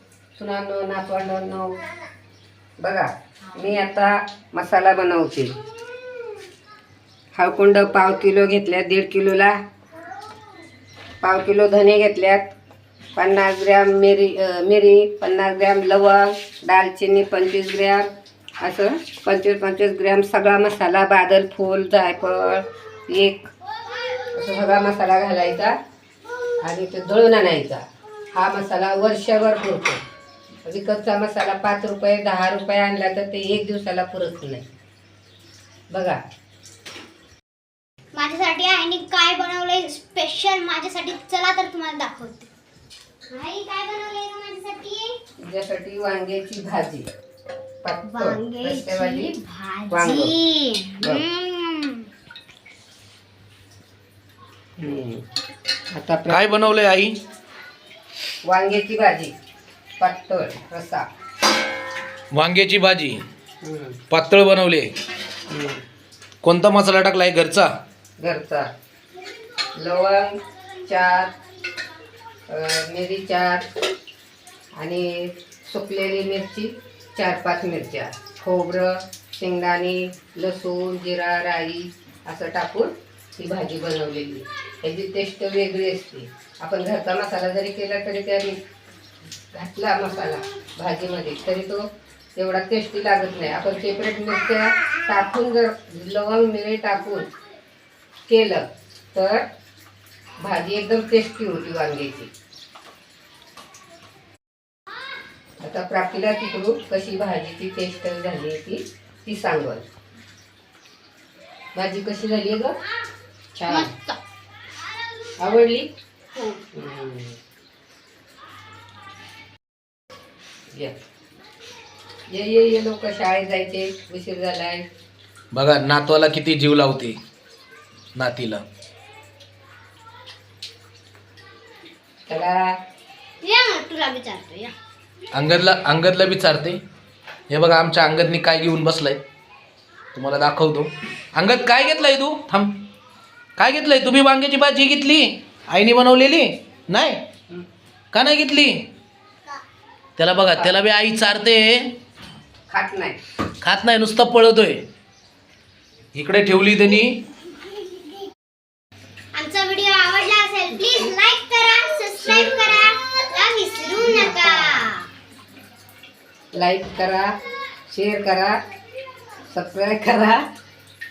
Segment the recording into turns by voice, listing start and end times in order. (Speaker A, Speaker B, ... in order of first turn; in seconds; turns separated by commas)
Speaker A: 0.4-1.8, Speaker A: 2.8-5.5, Speaker A: 7.4-9.6, Speaker A: 11.2-12.5, Speaker A: 13.2-18.1, Speaker A: 18.6-23.5, Speaker A: 24.3-25.7, Speaker A: 26.6-27.8, Speaker A: 28.3-30.0, Speaker A: 30.6-34.6, Speaker A: 35.9-36.2, Speaker B: 38.1-42.5, Speaker B: 43.3-45.2, Speaker A: 45.4-47.1, Speaker A: 47.8-49.3, Speaker B: 48.0-52.1, Speaker A: 49.9-50.4, Speaker A: 51.0-51.2, Speaker A: 54.8-55.2, Speaker A: 55.9-56.5, Speaker C: 56.3-57.2, Speaker A: 58.5-59.3, Speaker A: 60.0-61.1, Speaker C: 62.3-63.2, Speaker A: 63.6-64.0, Speaker C: 64.1-64.9, Speaker A: 65.5-65.8, Speaker C: 66.4-67.7, Speaker A: 68.2-68.7, Speaker A: 69.8-71.3, Speaker A: 72.5-73.7, Speaker A: 74.8-88.6, Speaker A: 89.5-91.8, Speaker A: 92.4-97.3, Speaker A: 98.3-99.4, Speaker A: 100.4-102.3, Speaker A: 105.6-109.8, Speaker A: 111.8-112.8, Speaker A: 113.5-113.9, Speaker B: 113.7-114.2, Speaker A: 115.4-115.9, Speaker A: 116.7-117.4, Speaker A: 122.3-124.8, Speaker C: 125.5-127.2, Speaker C: 128.2-128.6, Speaker A: 132.3-132.7, Speaker B: 133.4-134.7, Speaker C: 135.3-136.8, Speaker C: 137.5-139.2, Speaker C: 140.2-142.8, Speaker C: 143.6-147.2, Speaker C: 148.1-148.8, Speaker C: 150.2-151.9, Speaker A: 152.7-153.2, Speaker C: 153.6-154.8, Speaker C: 156.1-157.2, Speaker B: 159.3-165.1, Speaker A: 162.2-162.6, Speaker A: 164.0-164.8, Speaker A: 166.6-167.3, Speaker A: 167.9-168.6, Speaker A: 169.5-170.4